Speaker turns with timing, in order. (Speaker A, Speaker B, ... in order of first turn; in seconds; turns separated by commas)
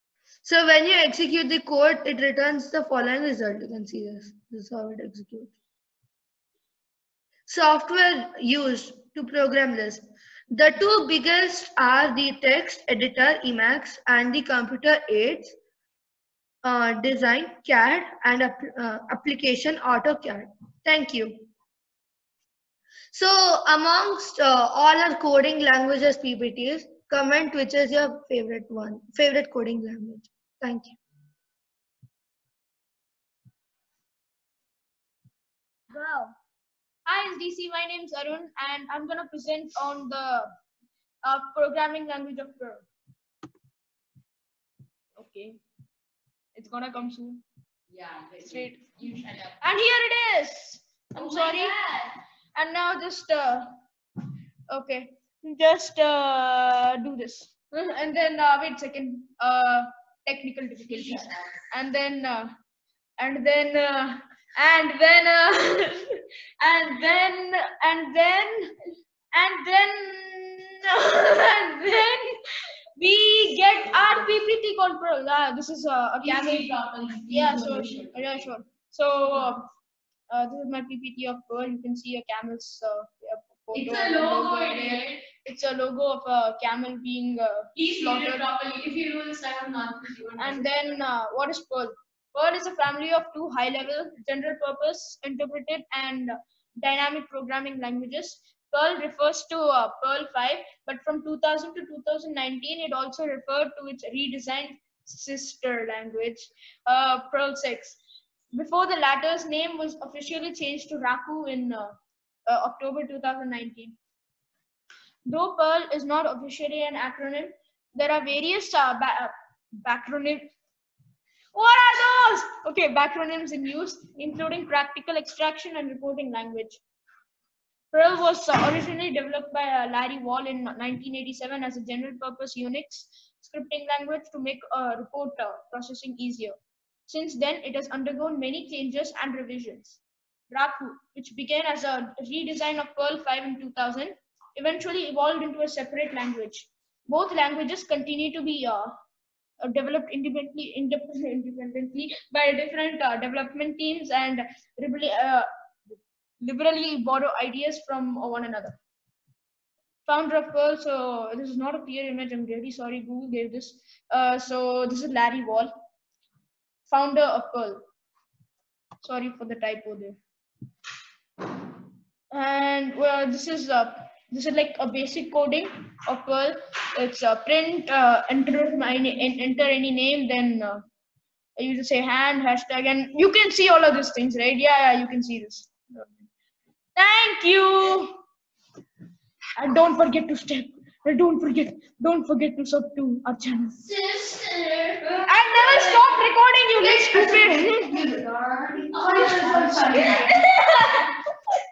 Speaker A: 0.4-5.5, Speaker A: 7.5-15.5, Speaker A: 16.6-21.5, Speaker A: 23.1-31.0, Speaker B: 35.9-36.3, Speaker B: 37.0-40.5, Speaker B: 41.2-42.9, Speaker B: 45.2-45.6, Speaker B: 46.5-47.4, Speaker C: 47.9-49.5, Speaker B: 48.4-51.8, Speaker C: 51.1-52.1, Speaker B: 52.5-53.8, Speaker B: 54.7-62.5, Speaker C: 61.0-61.3, Speaker B: 63.2-68.7, Speaker B: 69.3-72.4, Speaker B: 73.0-79.7, Speaker C: 76.2-78.3, Speaker B: 80.3-88.5, Speaker C: 83.7-85.2, Speaker C: 87.8-91.0, Speaker B: 90.4-108.0, Speaker B: 108.5-111.9, Speaker B: 112.5-114.0, Speaker B: 115.3-119.3, Speaker B: 119.8-120.5, Speaker B: 121.5-126.8, Speaker B: 127.9-136.6, Speaker B: 137.1-140.0, Speaker B: 140.5-148.9, Speaker B: 149.6-155.5, Speaker B: 156.4-158.8, Speaker B: 160.1-165.7, Speaker B: 166.9-167.8, Speaker B: 169.0-170.2, Speaker B: 172.3-180.8, Speaker B: 181.6-186.1, Speaker B: 186.9-188.2, Speaker B: 189.6-193.9, Speaker C: 193.8-196.2, Speaker B: 195.2-198.1, Speaker C: 196.8-200.4, Speaker B: 199.1-201.1